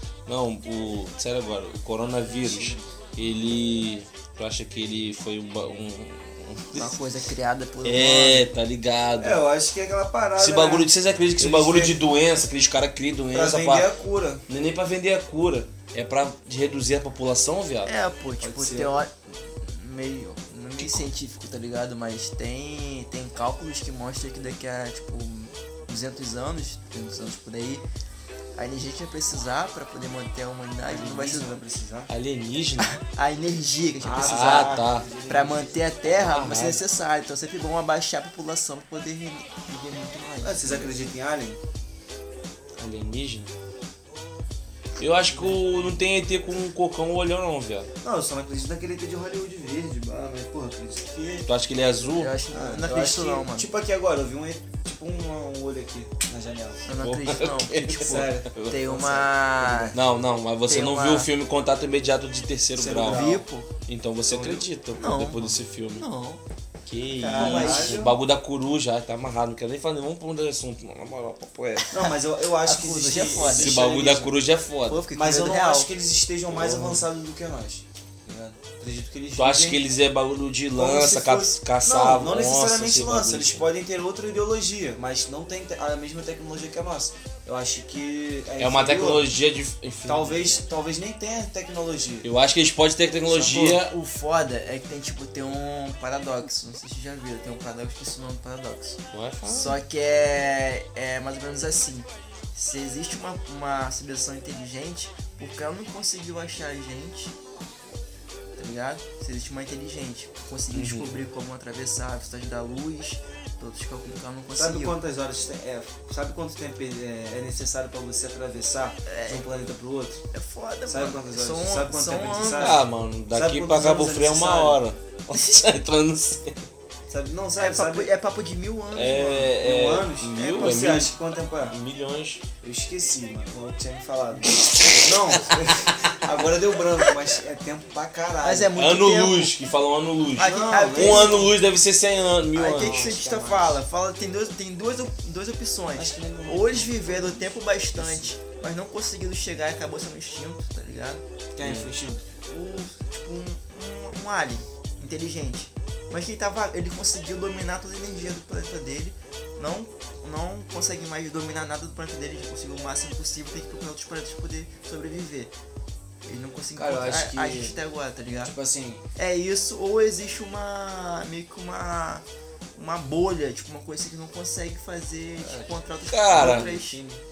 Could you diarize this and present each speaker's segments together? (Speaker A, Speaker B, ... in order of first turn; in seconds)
Speaker A: 0.3-7.0, 7.8-9.4, 10.4-13.9, 14.5-17.9, 32.1-32.9, 34.2-35.1, 36.0-36.8, 42.8-43.5, 45.0-47.9, 51.5-52.4, 56.9-58.8, 59.9-63.3, 63.9-66.0, 66.9-71.9, 73.4-75.0, 76.5-77.1, 79.3-83.7, 88.6-90.6, 92.2-93.9, 99.1-99.8, 110.7-111.1, 122.5-126.7, 128.9-131.2, 131.7-132.4, 138.8-143.2, 151.6-151.9, 176.1-176.8
Speaker B: 2.4-2.9, 9.2-12.0, 13.3-14.4, 18.4-18.9, 30.8-32.1, 34.0-35.8, 40.4-41.6, 45.2-45.6, 48.0-51.5, 52.5-56.8, 58.0-60.0, 62.8-63.5, 64.3-64.7, 67.2-68.2, 71.9-74.3, 75.1-79.8, 80.7-89.3, 90.0-92.3, 114.6-120.2, 120.9-124.8, 127.1-128.1, 129.3-131.8, 132.6-138.7, 140.4-141.5, 142.7-143.8, 145.9-148.3, 151.6-152.3, 166.7-167.8, 168.3-169.0, 175.4-175.8, 176.3-177.2
Speaker C: 6.7-8.5, 17.9-27.9, 28.6-31.6, 32.8-41.0, 52.1-53.7, 56.9-60.0, 60.7-61.3, 63.0-63.7, 65.0-66.4, 67.2-68.0, 72.6-73.9, 74.9-75.9, 93.2-99.0, 99.5-107.3, 108.6-115.0, 119.1-119.5, 120.3-122.8, 127.6-129.5, 130.3-130.8, 138.4-139.5, 140.4-141.5, 142.5-151.2, 152.5-165.5, 166.2-168.5, 169.2-172.2, 172.8-177.0